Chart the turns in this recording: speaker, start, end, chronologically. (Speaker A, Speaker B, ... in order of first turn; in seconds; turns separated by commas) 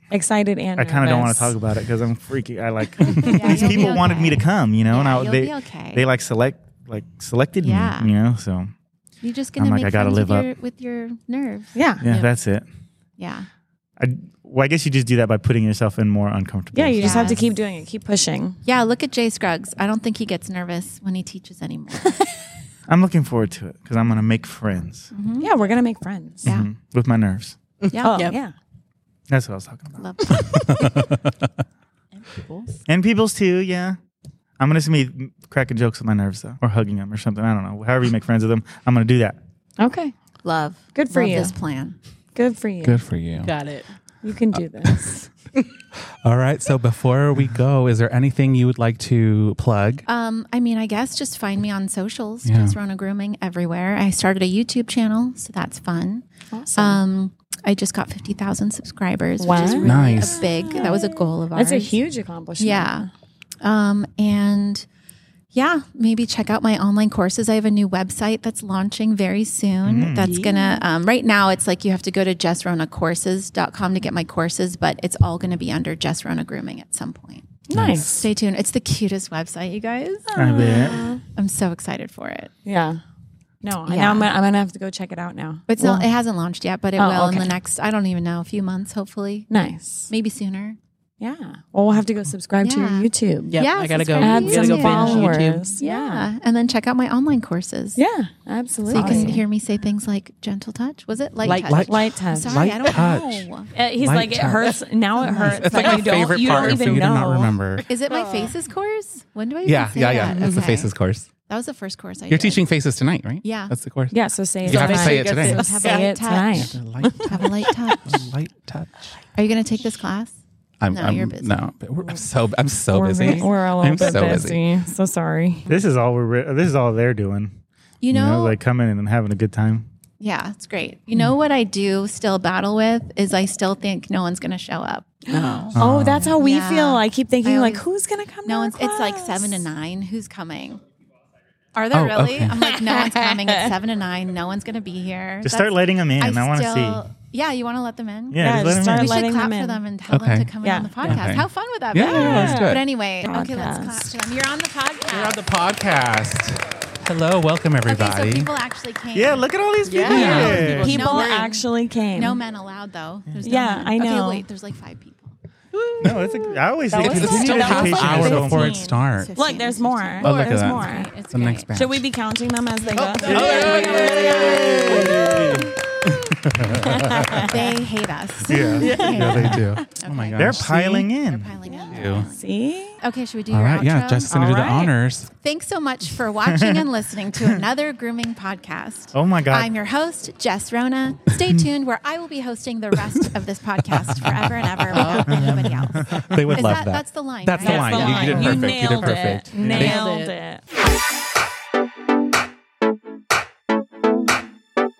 Speaker A: 0.1-1.6, Speaker B: 0.8-8.7, Speaker A: 3.0-3.6, Speaker C: 3.2-6.1, Speaker C: 7.6-8.1, Speaker C: 9.2-12.3, Speaker B: 9.6-10.5, Speaker A: 11.8-12.1, Speaker B: 12.0-12.6, Speaker C: 13.2-13.5, Speaker B: 14.0-17.4, Speaker A: 16.7-18.6, Speaker C: 17.0-17.4, Speaker C: 18.6-22.2, Speaker B: 22.9-25.1, Speaker C: 25.1-25.5, Speaker A: 25.4-26.5, Speaker B: 26.4-27.6, Speaker D: 27.8-28.4, Speaker C: 27.9-28.3, Speaker A: 28.0-28.5, Speaker B: 29.3-30.1, Speaker C: 30.0-30.6, Speaker E: 30.3-31.5, Speaker D: 32.1-32.7, Speaker B: 32.9-34.0, Speaker B: 34.6-39.4, Speaker A: 39.8-40.1, Speaker C: 40.4-42.0, Speaker A: 40.9-41.5, Speaker A: 42.3-43.0, Speaker E: 42.8-43.5, Speaker D: 43.4-43.9, Speaker A: 44.2-45.3, Speaker E: 46.2-50.0, Speaker C: 50.0-62.0, Speaker E: 52.5-52.8, Speaker A: 56.5-57.0, Speaker A: 59.4-63.1, Speaker E: 59.8-60.5, Speaker C: 62.6-63.1, Speaker C: 63.6-64.8, Speaker C: 65.5-77.5, Speaker B: 69.8-70.3, Speaker D: 70.2-70.8, Speaker A: 77.7-78.3, Speaker E: 77.7-78.2, Speaker C: 78.0-82.5, Speaker A: 80.3-81.2, Speaker B: 80.3-81.1, Speaker A: 82.6-83.0, Speaker A: 83.6-85.7, Speaker C: 83.8-84.3, Speaker C: 85.7-89.5, Speaker A: 87.0-87.5, Speaker A: 89.5-90.1, Speaker C: 90.1-90.8, Speaker A: 91.2-93.6, Speaker C: 92.6-98.0, Speaker D: 93.5-95.7, Speaker A: 94.2-96.3, Speaker A: 98.0-99.4, Speaker C: 98.9-103.7, Speaker D: 98.9-99.4, Speaker D: 101.4-101.9, Speaker E: 101.4-107.9, Speaker A: 101.9-102.7, Speaker A: 103.7-107.5, Speaker D: 105.2-105.5, Speaker C: 105.3-106.9, Speaker C: 107.8-112.7, Speaker D: 108.1-108.5, Speaker E: 109.6-111.3, Speaker D: 110.3-110.8, Speaker E: 112.3-115.8, Speaker C: 113.4-113.7, Speaker A: 114.1-117.3, Speaker D: 114.7-116.0, Speaker C: 114.7-118.2, Speaker E: 116.5-119.2, Speaker C: 119.3-120.4, Speaker E: 120.8-124.6, Speaker C: 120.9-121.6, Speaker A: 122.9-125.7, Speaker B: 125.7-127.5, Speaker C: 128.0-128.6, Speaker B: 128.1-129.9, Speaker C: 130.2-135.2, Speaker A: 135.3-139.6, Speaker D: 135.3-135.7, Speaker B: 135.7-136.3, Speaker C: 136.4-137.8, Speaker C: 138.4-140.8, Speaker C: 141.7-155.4, Speaker E: 141.9-142.5, Speaker A: 142.6-143.7, Speaker B: 145.4-147.0, Speaker B: 148.3-149.2, Speaker A: 148.4-149.8, Speaker E: 150.1-150.5, Speaker A: 150.6-151.3, Speaker E: 151.0-152.8, Speaker A: 151.9-154.1, Speaker E: 155.1-158.5, Speaker C: 157.8-159.4, Speaker B: 159.1-161.0, Speaker D: 159.8-161.5, Speaker A: 160.0-162.4, Speaker E: 160.1-160.8, Speaker C: 160.1-165.3, Speaker A: 163.4-164.4, Speaker D: 165.7-166.6, Speaker B: 166.0-168.8, Speaker A: 166.9-171.2, Speaker E: 166.9-169.3, Speaker C: 169.1-171.8, Speaker E: 170.2-172.0, Speaker A: 171.7-175.6, Speaker C: 172.9-175.4, Speaker E: 173.2-174.3, Speaker B: 173.2-175.7, Speaker D: 173.3-175.6, Speaker E: 176.0-177.5, Speaker A: 176.7-177.8, Speaker C: 177.3-182.5, Speaker B: 178.5-179.7, Speaker A: 178.6-179.9, Speaker E: 178.7-181.1, Speaker D: 178.9-179.1, Speaker B: 180.4-181.5, Speaker A: 181.7-183.0, Speaker E: 181.9-182.3, Speaker C: 183.0-184.3, Speaker E: 183.5-185.3, Speaker A: 184.3-184.9, Speaker C: 185.3-198.6, Speaker B: 186.5-187.6, Speaker B: 189.1-189.7, Speaker D: 194.9-195.7, Speaker E: 195.0-200.0, Speaker B: 195.2-196.5, Speaker A: 197.6-200.6, Speaker D: 197.8-200.3, Speaker B: 199.6-199.9